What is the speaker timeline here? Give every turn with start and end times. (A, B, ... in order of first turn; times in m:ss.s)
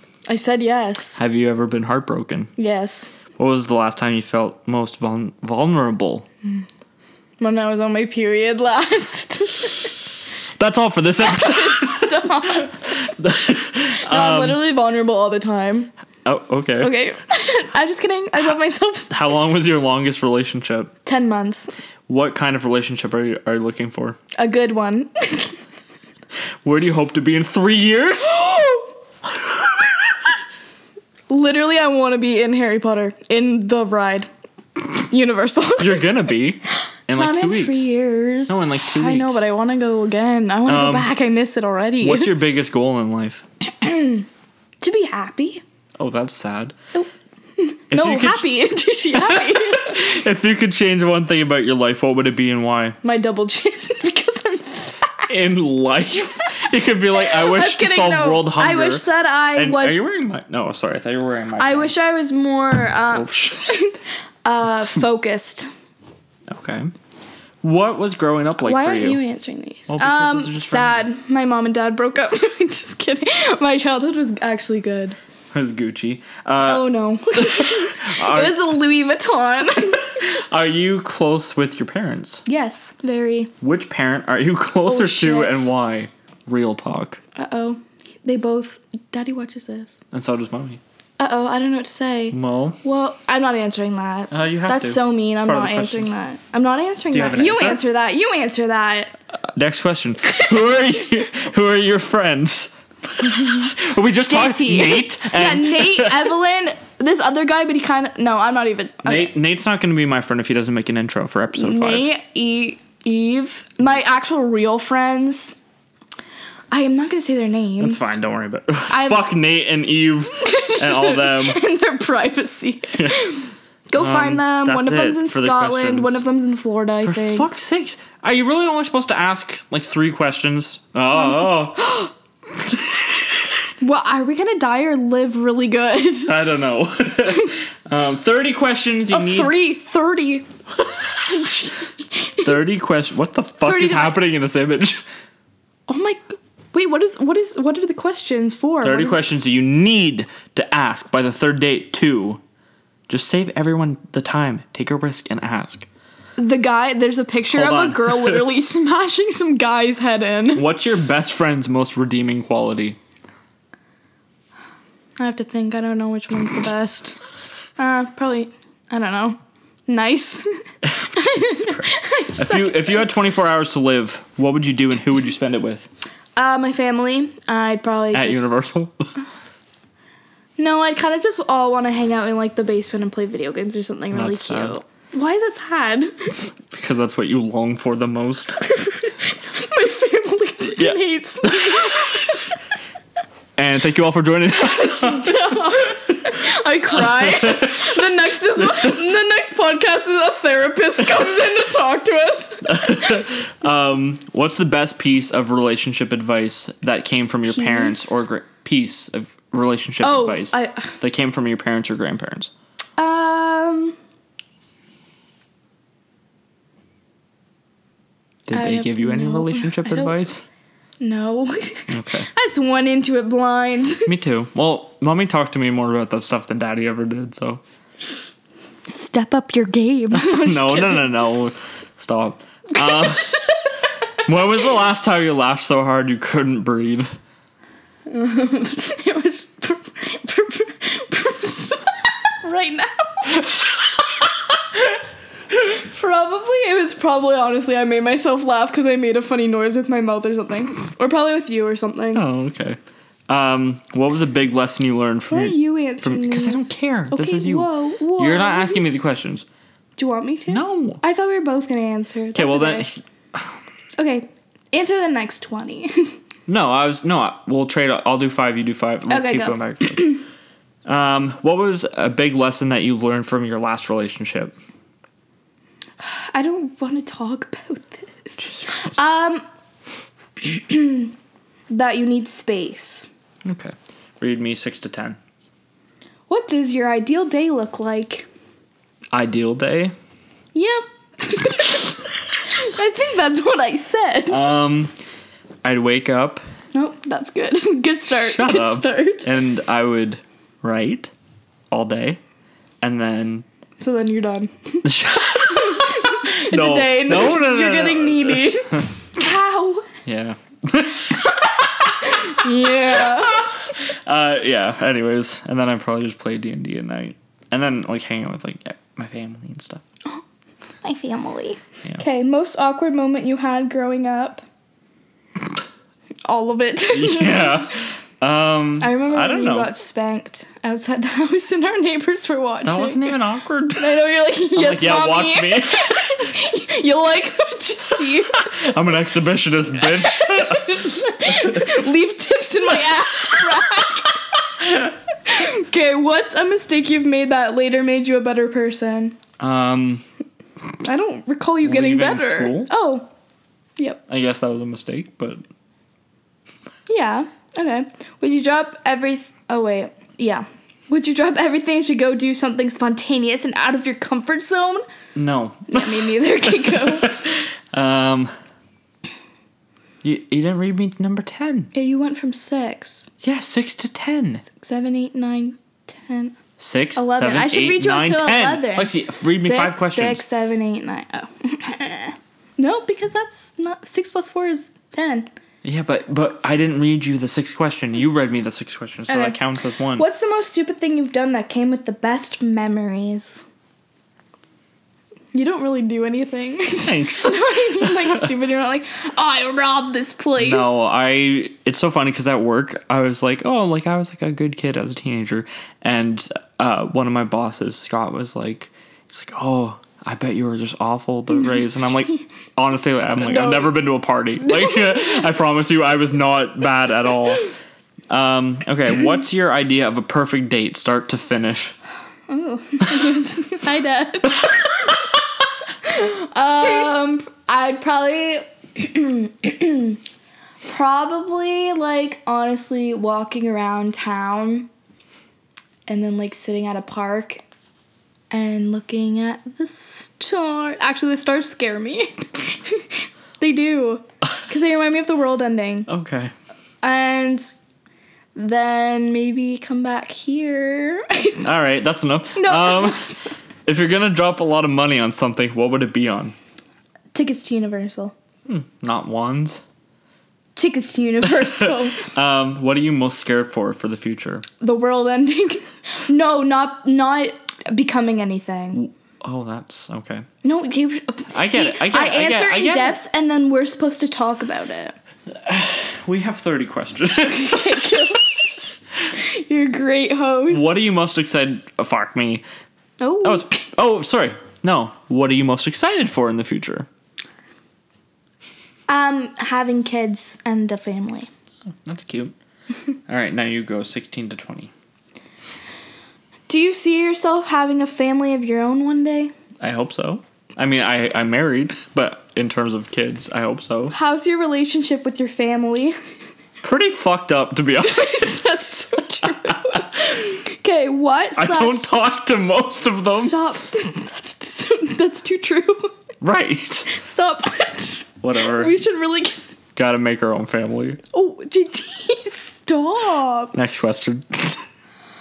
0:00.3-0:01.2 A
0:01.2-0:02.5 B
0:02.6-0:03.1 A
0:03.4-0:06.3 B
0:07.4-0:09.9 A
0:10.6-0:14.6 B
0:11.2-0:12.8 A
0:14.0-0:15.9 A
0:16.2-0:16.9 B
0:16.8-0:19.1 A
0:19.1-0:20.9 B
0:21.0-0:21.7 A
0:22.1-0:24.2 B
0:24.4-0:25.6 A
0:26.6-0:28.4 B
0:28.3-0:28.9 A
0:31.3-0:34.3 A
0:34.9-0:36.1 A
0:35.8-0:37.9 B
0:37.2-0:42.4 A
0:38.5-0:39.4 B
0:40.6-0:41.1 B
0:42.0-0:43.4 B
0:43.7-0:44.3 A
0:44.8-0:45.6 A
0:46.0-0:46.7 B
0:46.9-0:50.1 A
0:47.9-0:48.5 B
0:49.1-0:53.0 B
0:53.0-0:55.3 A
0:55.3-1:01.9 B
0:57.2-1:00.0 A
1:01.6-1:05.7 A
1:03.1-1:03.7 B
1:06.5-1:06.9 B
1:07.6-1:09.2 B
1:08.6-1:15.2 A
1:09.9-1:11.0 B
1:15.5-1:18.6 B
1:16.6-1:20.2 A
1:19.9-1:22.4 B
1:22.4-1:23.5 A
1:23.6-1:27.2 B
1:24.8-1:25.7 A
1:27.4-1:30.0 A
1:30.1-1:30.8 B
1:31.2-1:39.1 A
1:32.3-1:32.8 B
1:34.3-1:36.1 B
1:37.1-1:37.8 B
1:39.5-1:46.3 B
1:43.4-1:43.7 A
1:44.3-1:49.3 A
1:49.0-1:52.1 B
1:51.6-1:55.6 A
1:56.7-1:58.1 A
1:57.8-2:01.6 B
1:58.9-1:59.3 A
2:00.3-2:07.5 A
2:02.9-2:03.3 B
2:04.0-2:06.2 B
2:07.0-2:11.9 B
2:11.1-2:12.1 A
2:12.6-2:13.4 B
2:13.8-2:16.3 A
2:16.3-2:19.5 B
2:17.3-2:17.6 A
2:19.1-2:20.5 A
2:21.2-2:22.5 A
2:22.4-2:25.0 B
2:23.6-2:24.2 A
2:25.9-2:29.2 A
2:28.8-2:32.4 B
2:33.1-2:35.9 B
2:36.4-2:40.6 A
2:37.5-2:38.5 B
2:40.6-2:43.0 B
2:45.2-2:47.2 A
2:47.8-2:53.2 A
2:50.9-2:55.9 B
2:56.4-2:58.5 A
2:58.1-2:58.9 B
3:00.6-3:06.4 A
3:04.1-3:04.8 B
3:06.7-3:08.6 B
3:08.6-3:12.4 A
3:10.8-3:12.3 B
3:13.6-3:15.6 B
3:14.6-3:23.2 A
3:16.9-3:18.0 B
3:18.6-3:19.0 B
3:22.6-3:32.5 B
3:27.5-3:28.2 A
3:30.0-3:31.0 A
3:33.0-3:34.0 A
3:38.5-3:40.4 B
3:38.5-3:40.2 A
3:41.0-3:44.1 A
3:41.9-3:42.3 B
3:44.0-3:47.6 B
3:48.9-3:51.2 A
3:50.1-3:53.4 B
3:52.9-3:53.3 A
3:54.2-3:57.2 B
3:58.1-4:03.5 A
4:05.5-4:12.2 A
4:12.1-4:19.4 B
4:15.3-4:18.8 A
4:20.0-4:22.9 A
4:20.5-4:21.0 B
4:22.3-4:23.6 B
4:24.0-4:26.2 A
4:26.5-4:30.2 B
4:29.1-4:30.2 A
4:30.9-4:34.6 B
4:36.0-4:39.4 A
4:38.4-4:39.0 B
4:40.4-4:41.1 A
4:41.7-4:43.1 A
4:43.4-4:45.2 B
4:46.3-4:48.3 A
4:49.1-4:49.9 B
4:50.6-4:54.5 A
4:54.3-4:54.9 B
4:55.6-4:56.4 B
4:56.7-4:59.3 A
4:58.2-5:01.1 B
5:01.7-5:02.2 B
5:02.8-5:03.4 B
5:03.8-5:09.9 A
5:04.8-5:08.9 B
5:10.0-5:11.4 B
5:11.8-5:13.5 A
5:12.4-5:19.8 B
5:20.8-5:24.4 A
5:26.3-5:27.8 A
5:26.9-5:29.7 B
5:28.8-5:33.1 A
5:32.6-5:33.9 B
5:33.8-5:38.5 A
5:34.6-5:36.3 B
5:38.3-5:41.7 B
5:39.9-5:49.2 A
5:49.4-5:50.0 B
5:50.8-5:53.1 A
5:51.6-5:52.7 B
5:54.1-5:55.4 B
5:56.9-6:04.8 A
6:05.1-6:08.3 B
6:05.7-6:07.2 A
6:10.0-6:11.7 B
6:11.7-6:13.1 A
6:13.2-6:14.4 B
6:14.5-6:16.3 A
6:16.6-6:20.2 B
6:17.0-6:25.3 A
6:25.6-6:30.0 B
6:29.1-6:29.4 A
6:30.0-6:33.4 A
6:35.3-6:40.9 A
6:36.8-6:38.3 B
6:40.4-6:57.5 B
6:53.2-6:53.8 A
6:54.4-6:55.3 A
6:58.1-7:01.7 B
7:02.3-7:04.8 A
7:05.8-7:10.0 A
7:10.6-7:14.7 A
7:15.9-7:17.4 A
7:18.3-7:25.9 A
7:25.9-7:26.3 B
7:26.8-7:27.6 A
7:28.3-7:31.4 A
7:31.4-7:33.1 B
7:32.3-7:33.3 A
7:33.6-7:36.3 B
7:37.1-7:38.1 A
7:38.5-7:39.6 B
7:40.6-7:42.1 A
7:41.2-7:44.4 B
7:44.6-7:48.8 A
7:48.7-7:50.3 B
7:50.4-7:55.0 A
7:51.3-7:53.0 B
7:55.3-7:58.0 B
7:57.2-7:58.2 A
7:59.1-8:00.8 A
8:00.5-8:02.4 B
8:03.0-8:03.4 A
8:03.2-8:06.9 B
8:08.9-8:11.3 A
8:11.7-8:12.3 B
8:13.1-8:14.7 B
8:16.5-8:19.3 A
8:19.6-8:23.9 B
8:23.9-8:26.0 A
8:26.6-8:29.9 B
8:27.8-8:31.9 A
8:31.4-8:33.4 B
8:33.1-8:35.9 A
8:36.2-8:36.9 B
8:36.9-8:39.4 A
8:38.2-8:38.8 B
8:39.7-8:41.0 B
8:41.1-8:43.6 A
8:43.5-8:44.6 B